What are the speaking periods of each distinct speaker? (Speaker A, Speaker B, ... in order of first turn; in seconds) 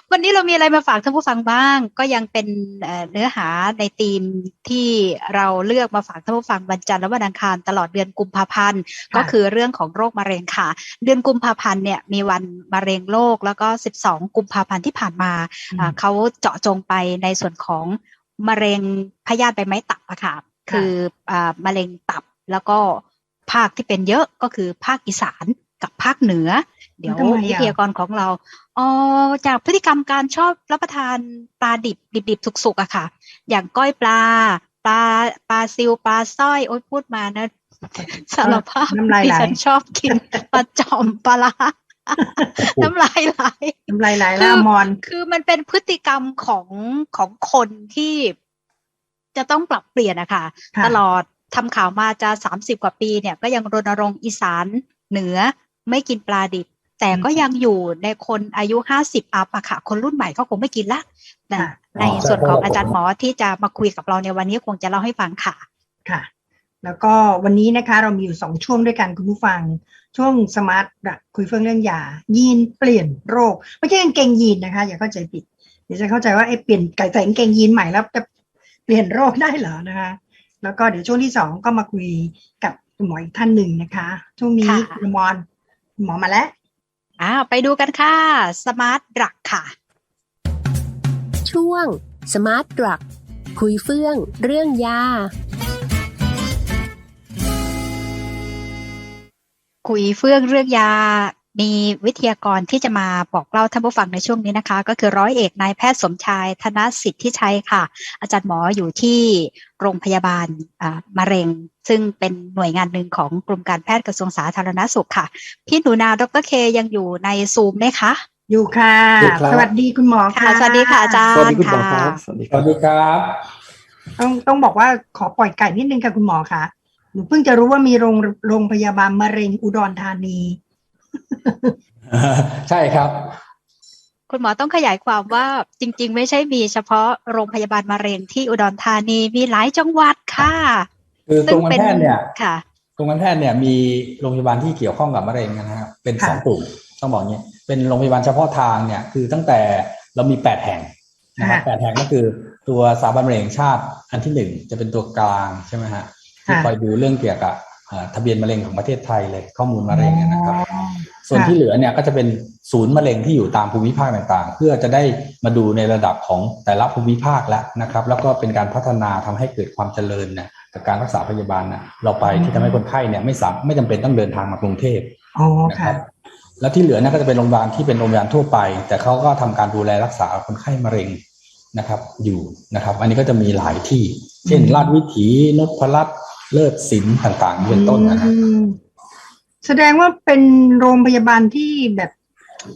Speaker A: 0.1-48.4, 49.4-65.7, 84.6-85.0, 87.2-89.7, 99.8-118.2, 120.3-122.2, 134.3-140.9, 141.5-142.6
Speaker B: 27.1-27.7, 38.4-39.6, 43.9-45.0, 66.8-78.3, 78.9-85.4, 86.0-86.5, 118.5-121.2, 124.2-130.6, 131.3-131.8, 151.4-151.7, 159.9-161.6, 172.2-172.8, 175.4-176.0, 184.5-184.9, 187.6-188.8, 189.6-192.1
Speaker C: 62.0-63.0, 122.5-123.5, 132.1-133.4, 141.3-142.3, 143.0-160.6, 161.3-175.2, 175.7-176.1, 176.6-181.2, 181.7-188.3
Speaker D: 91.5-93.0, 93.6-95.3
Speaker E: 119.2-119.7, 121.3-122.8